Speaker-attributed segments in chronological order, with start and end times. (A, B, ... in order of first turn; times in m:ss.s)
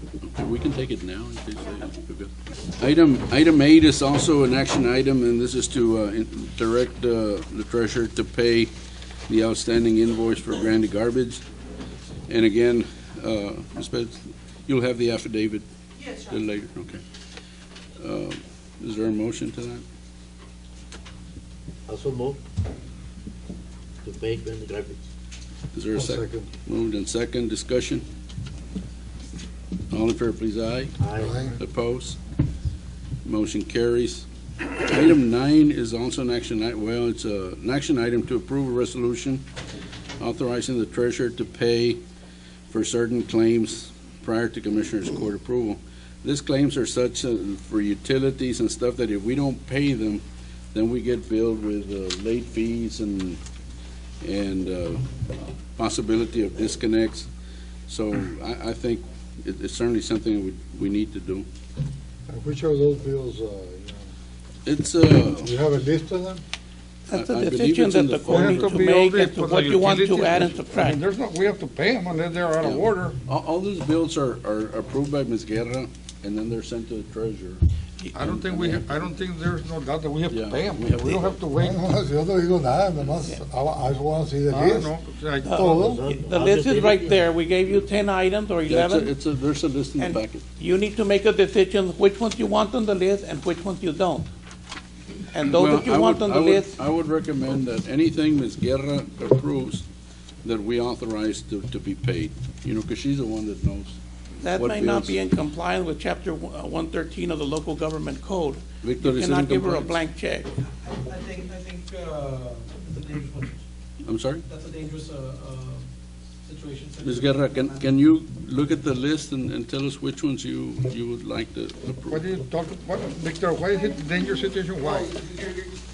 0:00.2-0:08.7 A
0:09.3-0:11.4 A
0:12.3-0:15.6 A
0:16.2-0:17.0 A
0:18.0-0:19.8 A
0:21.9-0:22.4 B
0:24.0-0:25.0 B
0:25.7-0:28.0 A
0:25.9-0:26.5 C
0:29.9-0:30.9 A
0:31.0-0:31.4 B
0:31.2-0:31.6 C
0:31.6-0:32.2 A
0:33.2-0:34.2 A
0:34.8-0:39.4 A
0:40.2-0:42.0 A
0:42.7-0:53.4 A
0:54.2-0:55.1 A
0:55.8-0:57.3 A
0:57.9-1:01.5 A
1:02.3-1:04.1 C
1:04.6-1:05.5 A
1:05.4-1:06.4 C
1:07.1-1:11.0 D
1:07.1-1:08.8 A
1:08.3-1:13.2 E
1:12.6-1:17.6 A
1:18.1-1:21.8 E
1:18.2-1:19.0 A
1:20.3-1:21.4 A
1:21.6-1:24.9 C
1:24.5-1:25.7 E
1:25.4-1:29.2 D
1:25.5-1:26.0 C
1:25.7-1:27.2 B
1:28.7-1:30.4 A
1:30.0-1:34.3 D
1:35.3-1:36.7 D
1:35.4-1:39.8 A
1:40.4-1:44.0 A
1:44.4-1:50.5 D
1:44.5-1:45.2 A
1:48.8-1:50.0 A
1:50.7-1:53.6 F
1:54.0-1:54.4 A
1:54.5-1:55.8 F
1:56.4-1:57.9 F
1:57.0-2:02.2 A
2:02.1-2:05.1 E
2:04.8-2:05.7 F